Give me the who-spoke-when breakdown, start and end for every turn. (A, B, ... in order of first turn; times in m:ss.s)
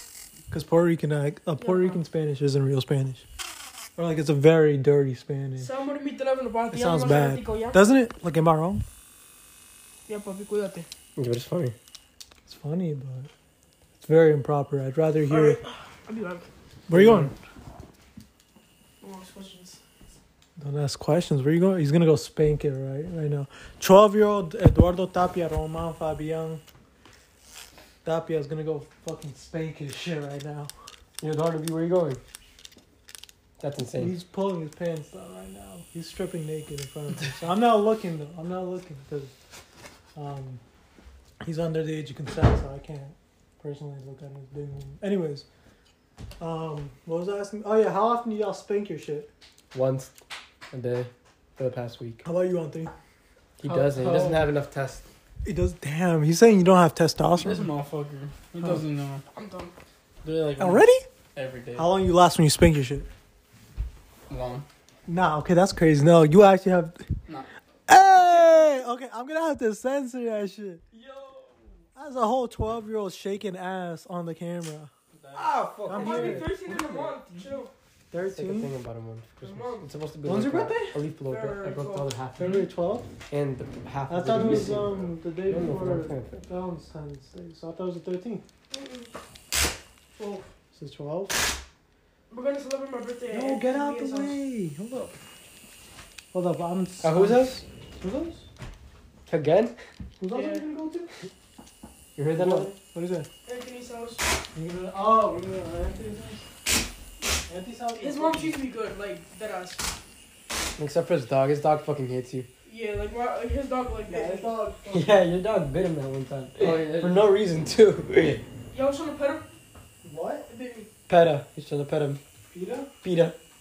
0:00.5-0:03.2 A
0:01.6-0:02.0 B
0:04.0-0:05.7 A
0:05.6-0:07.8 B
0:06.7-0:08.8 A
0:10.1-0:10.9 B
0:11.2-0:11.8 C
0:12.5-0:13.3 A
0:14.0-0:15.6 A
0:15.3-0:16.5 B
0:16.9-0:17.3 A
0:16.9-0:17.3 C
0:19.0-0:19.8 B
0:20.6-0:26.6 A
0:28.0-0:30.7 A
0:31.2-0:32.2 C
0:33.6-0:34.2 C
0:34.0-0:39.3 A
0:40.2-0:40.6 A
0:41.4-0:45.5 A
0:46.4-0:49.3 A
0:49.7-0:50.1 C
0:50.7-0:52.2 C
0:52.2-0:53.0 A
0:53.6-0:55.0 C
0:53.6-0:54.5 D
0:55.4-0:57.7 A
0:57.4-0:59.2 D
0:59.3-0:59.7 B
1:00.2-1:01.9 D
1:00.6-1:01.0 A
1:01.8-1:03.1 A
1:04.3-1:04.7 D
1:05.1-1:07.0 A
1:07.9-1:10.8 A
1:10.9-1:11.7 D
1:12.0-1:14.9 A
1:15.2-1:15.5 D
1:15.3-1:17.2 C
1:15.9-1:16.6 A
1:15.9-1:17.7 B
1:18.1-1:22.6 C
1:18.1-1:18.7 A
1:19.4-1:19.9 B
1:20.2-1:21.0 A
1:21.3-1:22.1 B
1:22.4-1:23.1 A
1:22.4-1:22.7 D
1:23.3-1:26.4 C
1:24.1-1:28.4 A
1:24.3-1:25.1 D
1:28.7-1:29.1 B
1:30.2-1:30.5 B
1:30.7-1:31.4 A
1:32.3-1:34.4 B
1:33.3-1:35.2 A
1:36.3-1:38.5 A
1:37.0-1:37.6 C
1:39.3-1:39.8 C
1:40.2-1:41.1 A
1:40.3-1:40.6 B
1:42.2-1:42.7 C
1:42.3-1:43.3 A
1:43.5-1:44.2 B
1:44.5-1:46.5 A
1:47.5-1:48.6 A
1:48.0-1:49.8 B
1:50.8-1:52.5 C
1:52.6-1:54.5 B
1:54.1-1:55.3 A
1:54.9-1:58.4 C
1:56.6-1:57.3 D
1:58.7-1:59.5 B
2:00.0-2:00.5 A
2:00.5-2:00.9 B
2:01.1-2:02.2 C
2:02.5-2:02.9 A
2:03.0-2:03.4 C